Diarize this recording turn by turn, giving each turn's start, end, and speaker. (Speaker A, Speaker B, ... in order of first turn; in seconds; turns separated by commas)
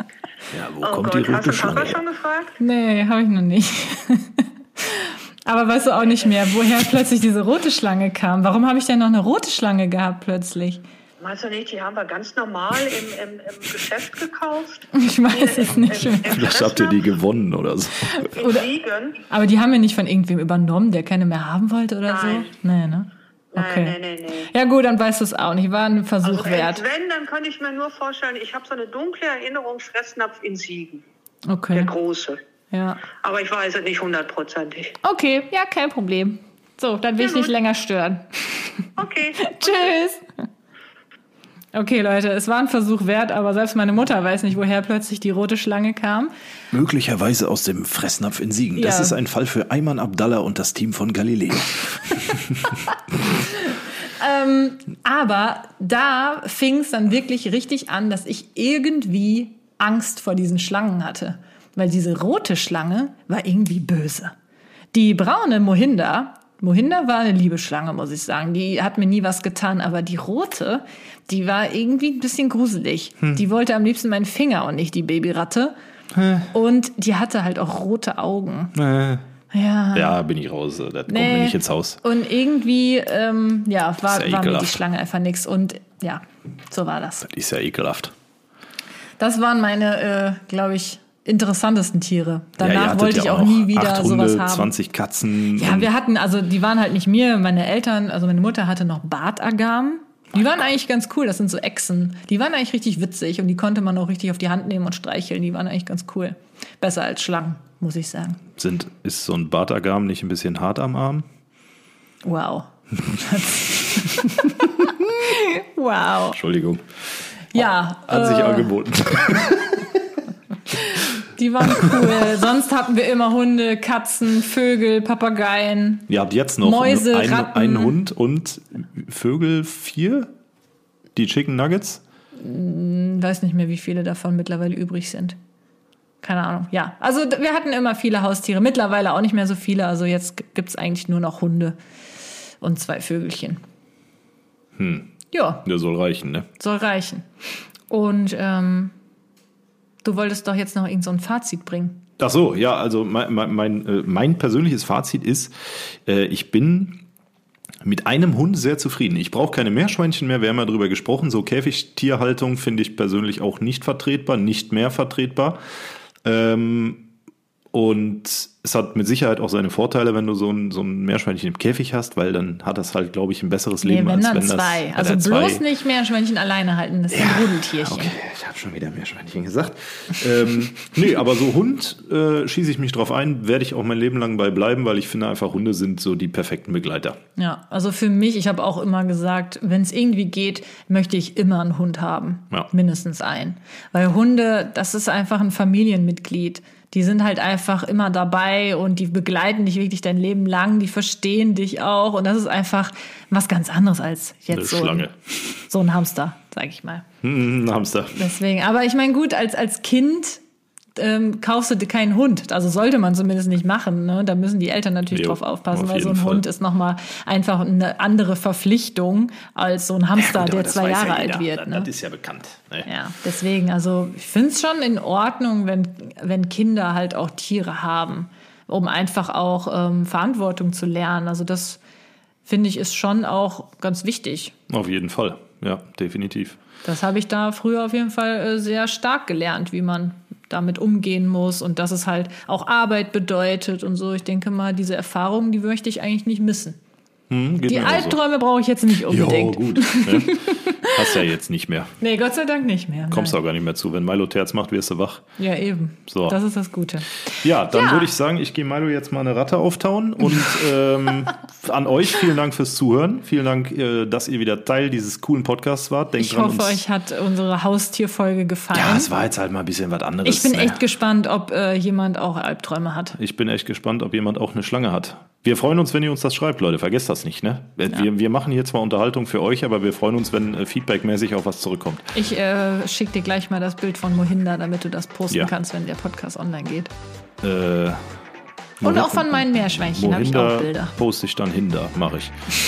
Speaker A: 0.5-2.0, Speaker B: 0.8-2.6, Speaker C: 2.6-10.8, Speaker B: 11.2-17.1, Speaker C: 14.9-16.4, Speaker A: 16.2-18.3, Speaker C: 18.3-18.7, Speaker B: 18.3-19.2, Speaker C: 19.3-26.8, Speaker B: 22.1-22.5, Speaker B: 23.5-24.5, Speaker B: 26.2-31.0, Speaker C: 31.4-31.9, Speaker B: 31.7-32.4, Speaker C: 32.7-33.0, Speaker B: 33.1-35.0, Speaker C: 35.0-38.8, Speaker B: 37.2-37.5, Speaker B: 39.0-40.0, Speaker C: 39.4-40.2, Speaker C: 41.7-46.3, Speaker A: 46.7-52.8, Speaker C: 48.8-49.2, Speaker C: 53.4-64.3, Speaker C: 64.9-75.7, Speaker A: 76.1-76.5, Speaker C: 76.5-78.8, Speaker A: 78.7-79.2, Speaker C: 79.5-80.2, Speaker A: 79.9-82.0, Speaker C: 81.1-87.2, Speaker A: 84.1-84.8, Speaker A: 87.2-88.1, Speaker C: 89.2-94.7, Speaker A: 92.6-95.9, Speaker C: 95.5-108.4, Speaker A: 108.6-111.2, Speaker C: 112.2-116.4, Speaker A: 116.3-116.8, Speaker C: 117.5-118.7, Speaker A: 117.5-120.0, Speaker C: 120.7-126.1, Speaker A: 121.6-122.0, Speaker A: 126.1-130.3, Speaker C: 126.6-128.0, Speaker A: 131.2-132.0, Speaker C: 132.3-135.4, Speaker C: 136.2-141.8, Speaker C: 142.6-143.6, Speaker A: 144.8-146.5, Speaker C: 145.3-145.6, Speaker C: 146.6-147.3, Speaker C: 147.9-148.9, Speaker C: 150.0-152.0, Speaker A: 152.2-155.5, Speaker A: 156.1-157.0, Speaker A: 157.8-165.6, Speaker A: 166.2-167.1, Speaker A: 167.7-175.6, Speaker C: 173.8-178.1, Speaker A: 177.1-187.2, Speaker C: 187.4-205.1, Speaker A: 204.5-205.1, Speaker C: 205.7-207.1, Speaker A: 207.2-208.2, Speaker C: 208.1-210.4, Speaker C: 210.9-221.9, Speaker A: 215.1-216.4, Speaker A: 220.2-222.9, Speaker C: 222.9-231.8, Speaker C: 232.4-234.5, Speaker A: 234.7-236.6, Speaker C: 236.8-246.8, Speaker A: 247.3-248.2, Speaker C: 247.7-251.2, Speaker A: 249.1-251.9, Speaker C: 252.0-253.4, Speaker A: 253.1-255.2, Speaker C: 255.4-257.1, Speaker A: 256.1-256.4, Speaker A: 257.4-266.8, Speaker C: 257.6-258.1, Speaker C: 266.2-269.1, Speaker A: 268.7-270.8, Speaker C: 270.2-273.2, Speaker A: 273.2-282.1, Speaker C: 282.1-286.9, Speaker A: 287.4-288.0, Speaker A: 288.8-292.4, Speaker C: 288.8-290.9